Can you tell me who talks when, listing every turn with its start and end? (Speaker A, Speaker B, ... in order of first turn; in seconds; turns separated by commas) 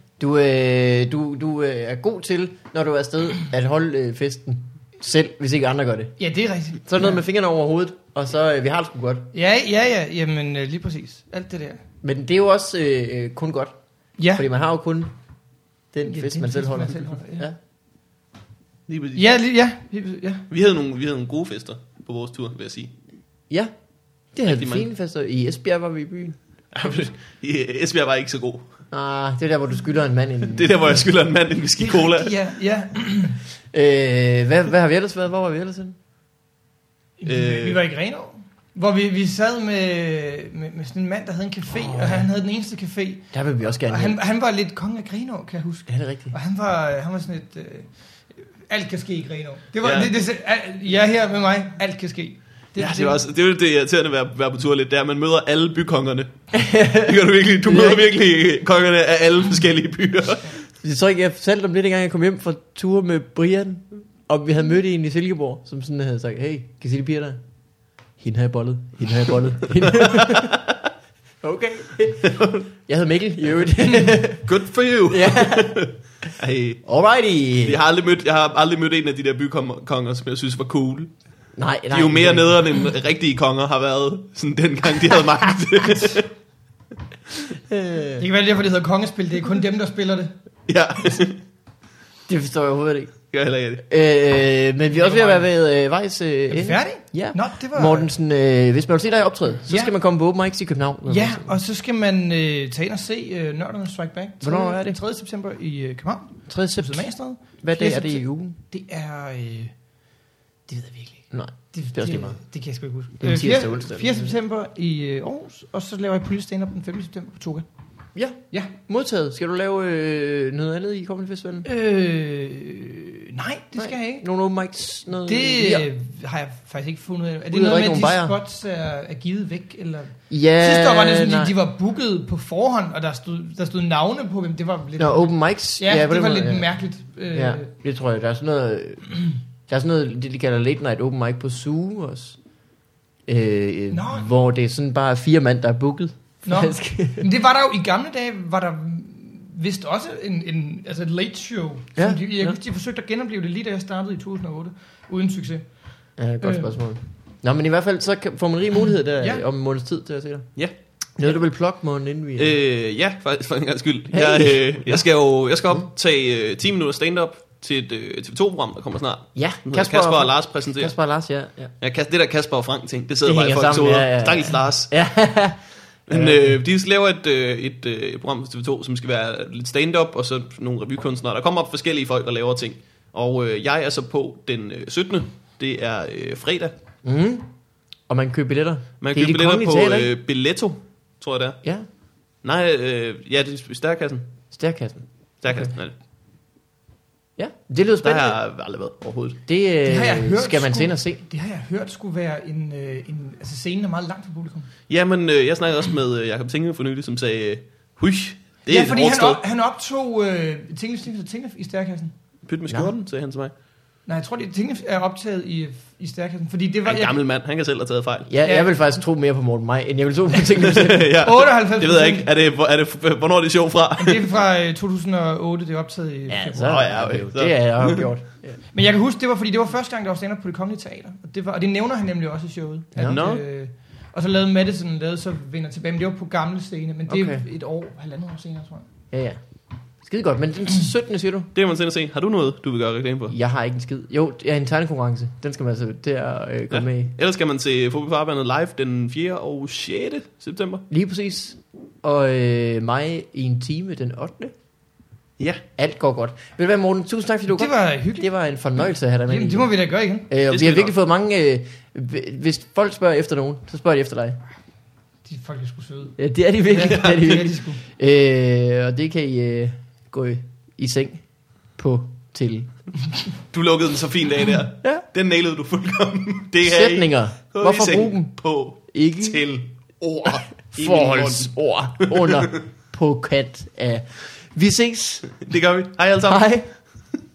Speaker A: 0.2-6.1, Speaker B: 6.2-7.1, Speaker A: 6.8-9.3, Speaker B: 9.3-11.8, Speaker A: 12.0-13.8, Speaker B: 14.2-14.4, Speaker A: 14.3-15.1, Speaker A: 15.9-17.6, Speaker B: 16.1-17.5, Speaker C: 18.9-19.2, Speaker B: 19.1-20.4, Speaker C: 20.5-22.9, Speaker A: 24.3-26.4, Speaker C: 24.4-24.8, Speaker C: 26.7-28.6, Speaker A: 28.9-31.1, Speaker C: 30.5-32.3, Speaker B: 31.8-33.4, Speaker A: 33.7-36.0, Speaker B: 37.2-43.3, Speaker C: 37.2-37.8, Speaker A: 41.7-42.3, Speaker A: 43.3-44.2, Speaker B: 43.9-47.9, Speaker A: 45.9-46.3, Speaker B: 48.4-53.2, Speaker C: 49.8-50.1, Speaker C: 52.8-60.5, Speaker A: 56.5-58.1, Speaker A: 60.8-67.4, Speaker A: 68.2-70.6, Speaker C: 69.8-70.8, Speaker A: 71.4-74.5, Speaker C: 72.2-72.6, Speaker B: 73.8-74.2, Speaker C: 74.5-76.8, Speaker A: 75.1-75.9, Speaker A: 76.8-77.8, Speaker C: 77.6-81.1, Speaker A: 81.5-82.6, Speaker C: 81.9-86.3, Speaker A: 87.7-88.2, Speaker B: 88.2-90.3, Speaker C: 90.7-91.4, Speaker A: 92.3-93.2, Speaker C: 93.3-93.8, Speaker A: 93.9-101.5, Speaker B: 94.9-95.5, Speaker B: 96.5-98.1, Speaker B: 101.1-109.7, Speaker A: 104.4-105.0, Speaker A: 106.5-108.6, Speaker B: 110.7-117.7, Speaker A: 111.3-112.4, Speaker A: 113.2-114.3, Speaker A: 118.1-121.7, Speaker B: 121.6-124.2, Speaker A: 123.8-125.9, Speaker B: 125.2-137.7, Speaker A: 127.5-128.3, Speaker A: 130.3-131.5, Speaker A: 135.0-136.7, Speaker A: 137.3-139.1, Speaker A: 139.7-142.4, Speaker A: 143.2-147.3, Speaker B: 143.9-144.2, Speaker B: 146.4-155.6, Speaker A: 151.9-152.6, Speaker A: 156.2-160.5, Speaker B: 156.4-156.7, Speaker A: 161.2-162.6, Speaker C: 162.4-170.9, Speaker A: 164.1-165.0, Speaker A: 169.3-171.7, Speaker C: 171.8-174.9, Speaker A: 173.2-176.6, Speaker C: 176.1-186.7, Speaker A: 187.0-187.5, Speaker A: 188.1-190.1, Speaker C: 189.0-191.6, Speaker C: 192.4-194.3, Speaker A: 194.5-195.7, Speaker C: 195.4-195.9, Speaker A: 197.4-198.4, Speaker C: 198.0-199.4, Speaker A: 199.5-201.2, Speaker B: 199.8-204.7, Speaker C: 204.9-209.4, Speaker B: 208.7-212.1, Speaker C: 212.4-213.5, Speaker B: 214.1-217.2, Speaker C: 216.8-218.3, Speaker A: 218.3-221.1, Speaker C: 220.6-224.3, Speaker B: 221.2-222.3, Speaker B: 224.0-226.8, Speaker A: 226.3-228.6, Speaker C: 226.6-228.0, Speaker B: 228.7-238.8, Speaker C: 233.0-233.4, Speaker A: 237.1-237.4, Speaker A: 239.1-239.4, Speaker A: 240.0-241.5, Speaker C: 241.5-243.3, Speaker A: 243.3-247.1, Speaker C: 246.7-250.8, Speaker A: 250.9-254.5, Speaker A: 255.8-259.7, Speaker B: 257.5-258.3, Speaker B: 259.3-260.3, Speaker A: 260.3-264.4, Speaker C: 260.5-260.9, Speaker B: 265.2-266.2, Speaker A: 266.2-271.2, Speaker B: 266.7-267.8, Speaker C: 266.8-267.4, Speaker A: 271.8-272.7, Speaker C: 273.5-282.6, Speaker A: 276.6-278.3, Speaker A: 278.9-279.4, Speaker A: 280.7-285.3, Speaker C: 285.3-287.1, Speaker A: 286.2-286.7